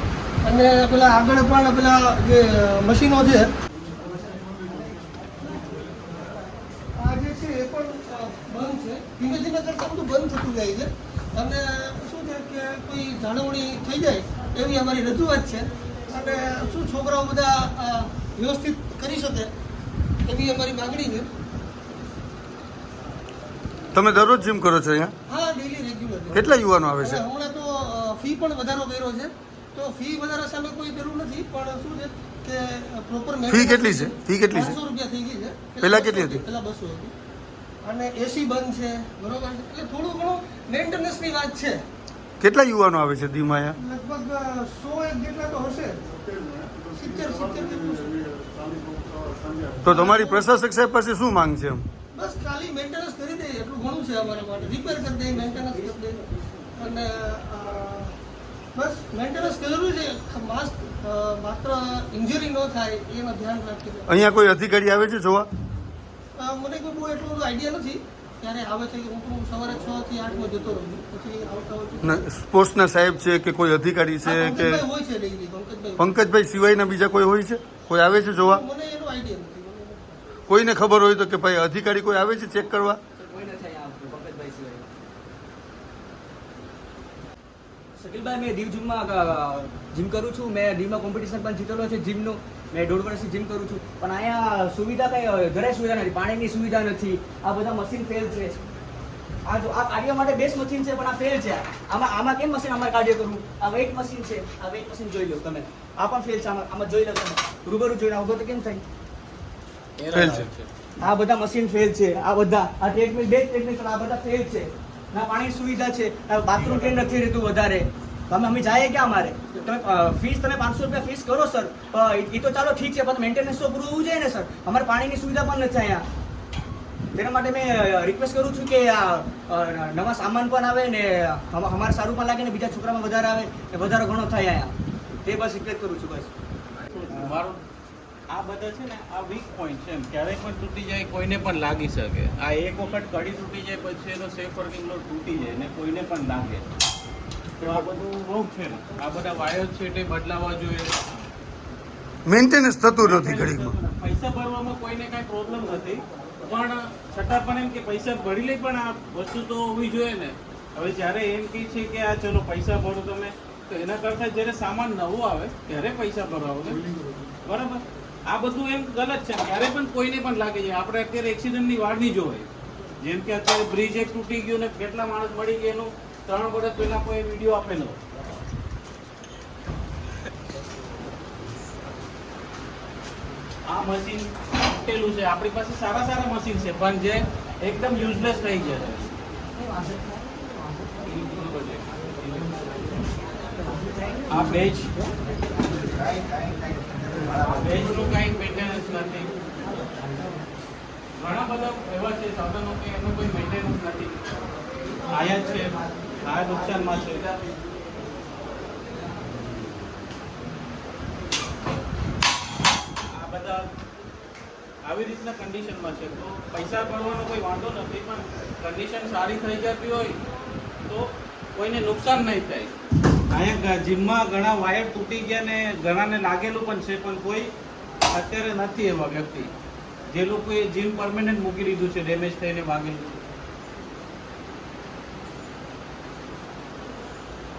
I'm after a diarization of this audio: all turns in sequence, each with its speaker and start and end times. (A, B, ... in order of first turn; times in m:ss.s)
0:00.4-0:03.5 A
0:07.0-0:19.5 A
0:20.2-0:21.3 A
0:23.9-0:25.1 B
0:25.3-0:37.1 A
0:26.3-0:27.2 B
0:33.5-0:34.8 B
0:35.8-0:36.4 B
0:37.8-0:41.8 A
0:42.4-0:43.8 B
0:43.8-0:46.2 A
0:46.8-0:48.3 A
0:49.8-0:51.9 B
0:49.8-0:50.5 A
0:52.2-0:56.2 A
0:55.6-0:56.4 C
0:56.8-0:58.2 A
0:58.8-1:04.1 A
1:04.1-1:05.5 B
1:06.4-1:12.2 A
1:12.0-1:14.8 B
1:14.2-1:16.0 A
1:16.0-1:18.6 B
1:18.4-1:20.3 A
1:20.5-1:23.0 B
1:23.2-1:24.9 C
1:28.0-1:38.6 C
1:39.5-1:48.8 C
1:50.0-1:50.7 D
1:50.1-1:50.5 B
1:51.0-2:06.0 C
1:56.6-1:57.1 D
2:07.1-2:16.3 C
2:16.9-2:17.6 D
2:18.3-2:26.6 D
2:27.6-2:31.0 D
2:32.3-2:33.7 B
2:33.0-2:46.8 D
2:47.4-2:52.5 D
2:53.0-2:58.0 D
3:03.7-3:09.2 D
3:11.0-3:12.1 D
3:14.3-3:14.9 D
3:17.3-3:19.3 D
3:21.2-3:24.2 D
3:25.1-3:27.4 D
3:33.1-3:33.7 D
3:34.8-3:40.2 D
3:40.9-3:42.7 D
3:43.3-3:47.5 D
3:48.1-3:49.5 D
3:50.1-3:53.2 D